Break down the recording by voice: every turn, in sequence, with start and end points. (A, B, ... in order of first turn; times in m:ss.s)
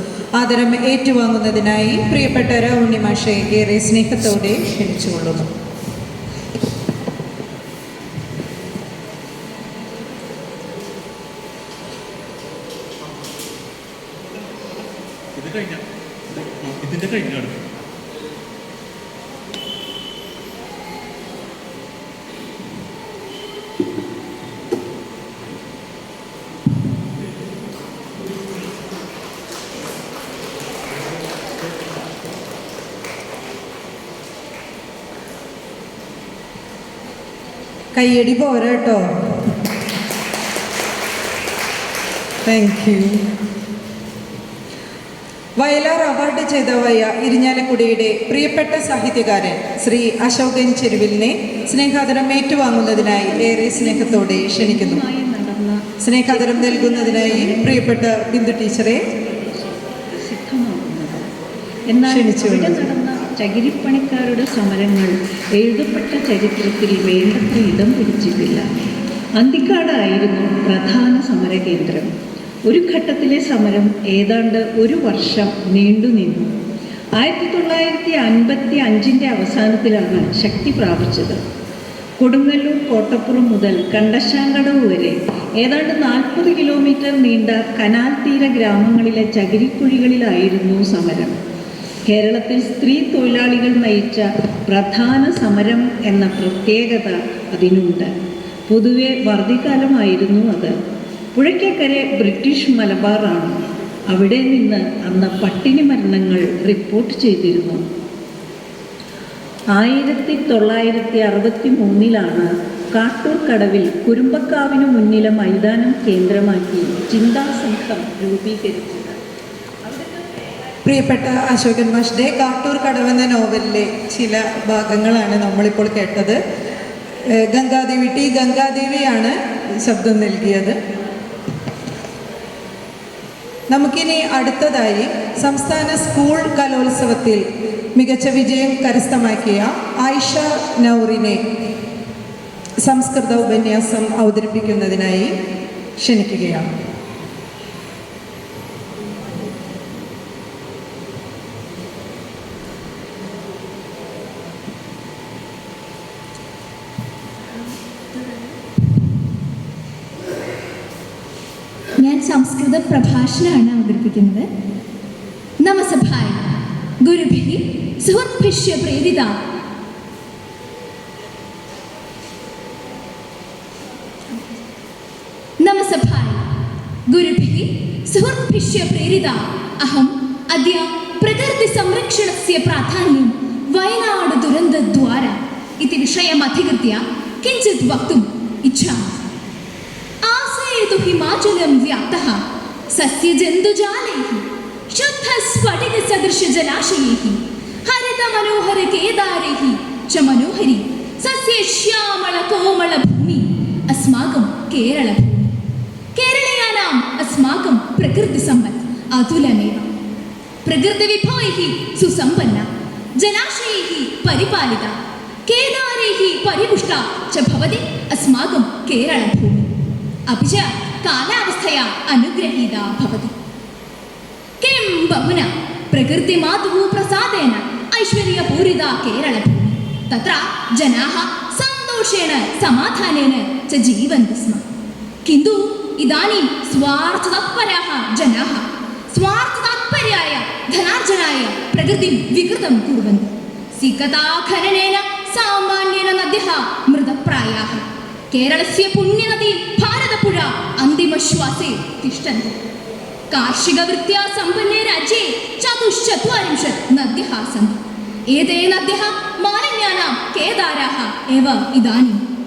0:00.4-0:05.5 A
0:15.4-0:17.6 B
0:38.0-0:39.0 A
0:42.4-0:43.3 A
0:45.6-0:55.0 A
0:52.9-0:57.9 C
0:56.0-0:59.0 A
0:59.1-1:01.3 C
1:01.9-1:08.6 C
1:02.1-1:02.8 A
1:09.4-1:12.1 C
1:12.7-1:16.5 C
1:17.2-1:21.4 C
1:22.2-1:31.4 C
1:32.1-1:38.1 C
1:38.7-1:40.7 C
1:41.3-1:47.8 C
1:49.8-1:59.2 C
2:00.8-2:06.4 A
2:07.4-2:10.8 A
2:13.7-2:17.4 A
2:17.9-2:21.4 A
2:22.8-2:25.3 A
2:26.0-2:26.7 A
2:42.0-2:44.5 D
2:45.6-2:46.5 D
2:47.0-2:49.3 D
2:55.6-2:56.4 D
2:57.1-3:09.2 D
3:10.2-3:25.6 D
3:26.1-3:29.9 D
3:30.6-3:39.7 D
3:40.3-3:43.3 D
3:44.6-3:54.6 D
3:55.2-4:12.6 D
4:13.3-4:22.2 D